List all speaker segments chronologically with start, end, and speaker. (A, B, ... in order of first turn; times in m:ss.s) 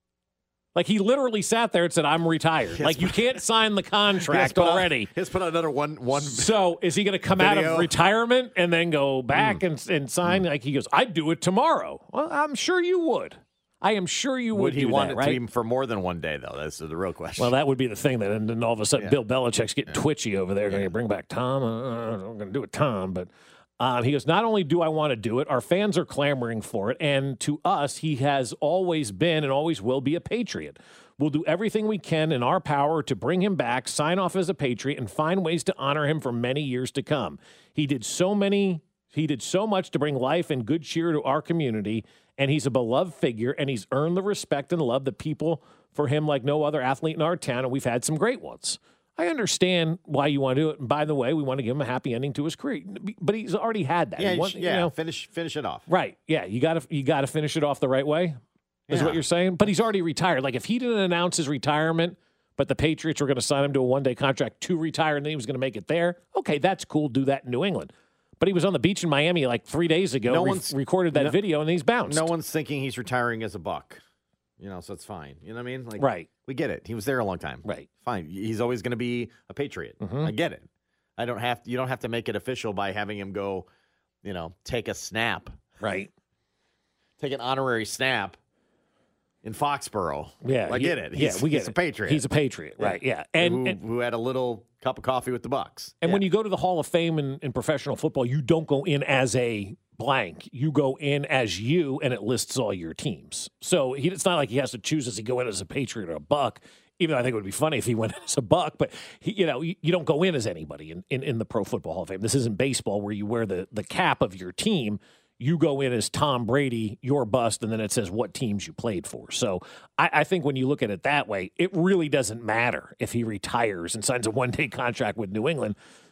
0:00.8-0:05.1 A
0:02.7-0:03.3 B
0:04.2-0:06.6 B
0:06.1-0:15.4 A
0:07.3-0:07.9 B
0:09.4-0:09.6 B
0:14.5-0:17.6 B
0:17.4-0:54.9 A
0:54.2-0:55.9 B
0:55.9-1:12.3 A
0:58.9-0:59.2 B
1:10.3-1:11.4 B
1:12.1-1:14.0 B
1:14.6-1:23.7 B
1:16.0-1:16.3 A
1:20.0-1:20.3 A
1:24.2-1:25.7 B
1:25.8-1:26.1 A
1:27.2-1:28.4 B
1:29.4-1:32.3 B
1:30.4-1:33.8 A
1:32.8-1:36.2 B
1:36.0-2:05.8 A